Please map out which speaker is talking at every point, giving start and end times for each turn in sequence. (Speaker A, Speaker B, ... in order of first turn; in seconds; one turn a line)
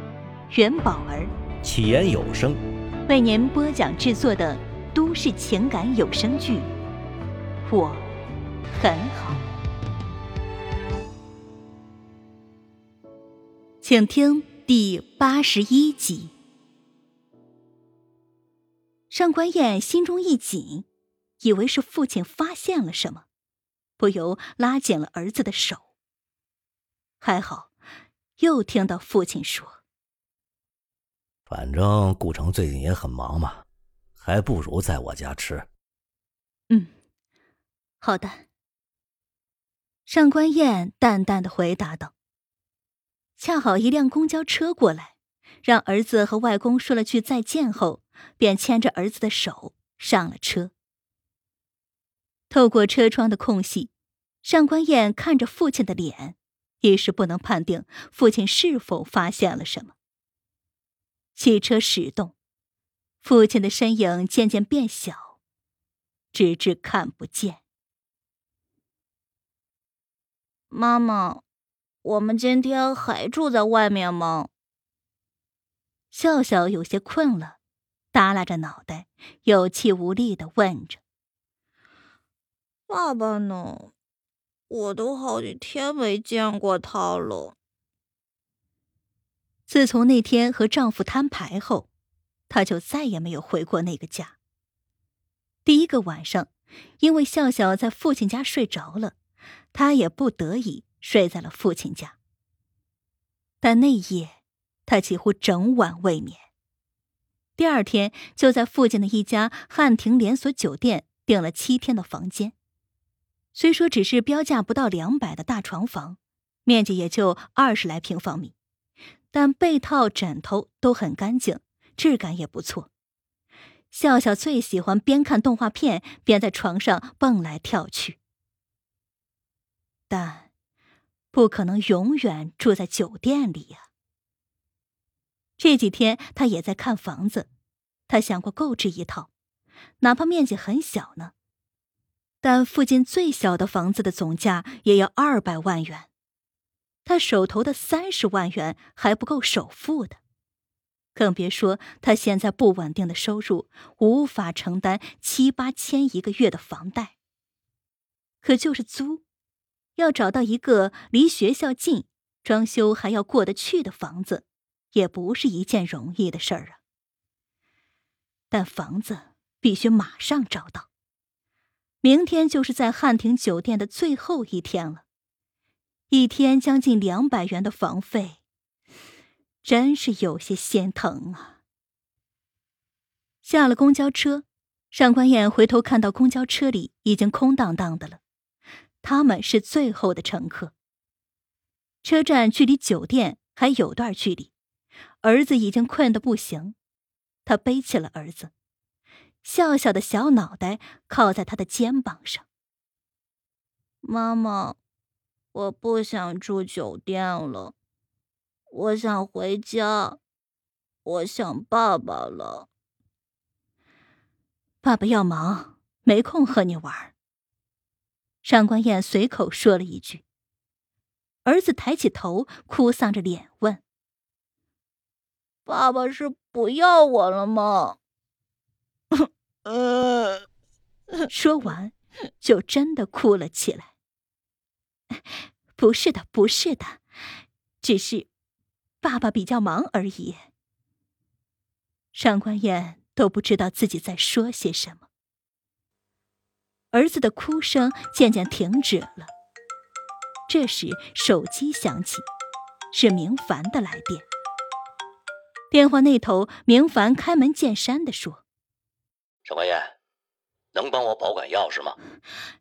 Speaker A: 0.5-1.3
Speaker B: 1.6-2.6
Speaker A: 3.0-6.7
Speaker A: 7.7-8.0
Speaker A: 8.8-9.4
Speaker A: 13.8-16.3
Speaker A: 19.1-20.9
Speaker A: 21.4-23.2
Speaker A: 24.0-25.9
Speaker A: 27.2-27.7
Speaker A: 28.4-29.8
Speaker B: 31.5-33.6
Speaker B: 34.2-35.6
Speaker A: 38.0-38.5
Speaker A: 40.1-42.1
Speaker A: 43.4-50.7
Speaker A: 52.5-53.9
Speaker A: 54.4-59.9
Speaker A: 61.4-62.3
Speaker A: 63.2-65.3
Speaker A: 66.3-67.6
Speaker C: 70.7-71.4
Speaker C: 72.0-74.5
Speaker A: 76.1-77.6
Speaker A: 78.1-81.0
Speaker C: 82.9-83.9
Speaker C: 84.7-87.5
Speaker A: 89.7-91.9
Speaker A: 92.5-94.3
Speaker A: 95.6-96.5
Speaker A: 97.0-99.2
Speaker A: 99.7-102.2
Speaker A: 103.6-106.5
Speaker A: 107.6-112.5
Speaker A: 113.5-118.5
Speaker A: 119.3-122.9
Speaker A: 123.9-128.2
Speaker A: 130.1-130.5
Speaker A: 131.3-133.8
Speaker A: 135.6-137.5
Speaker A: 138.1-139.3
Speaker A: 140.0-141.3
Speaker A: 142.4-146.1
Speaker A: 147.0-150.2
Speaker A: 151.1-157.1
Speaker A: 158.4-159.2
Speaker A: 159.9-166.8
Speaker A: 168.5-170.9
Speaker A: 172.0-175.0
Speaker A: 176.1-178.4
Speaker A: 179.6-181.6
Speaker A: 183.4-188.2
Speaker A: 189.0-190.7
Speaker A: 192.0-194.5
Speaker A: 195.2-196.8
Speaker A: 197.4-198.5
Speaker A: 199.4-202.4
Speaker C: 204.0-204.8
Speaker C: 205.5-207.7
Speaker C: 208.7-210.2
Speaker C: 211.0-212.7
Speaker A: 214.8-217.1
Speaker A: 218.4-220.2
Speaker A: 221.4-223.8
Speaker C: 225.7-228.0
Speaker C: 229.1-230.4
Speaker A: 231.3-233.9
Speaker A: 235.8-237.0
Speaker A: 237.8-238.3
Speaker A: 239.0-240.5
Speaker A: 242.1-245.1
Speaker A: 246.9-249.3
Speaker A: 250.5-252.2
Speaker A: 252.9-254.2
Speaker A: 255.7-258.4
Speaker B: 259.4-259.9
Speaker B: 260.7-261.9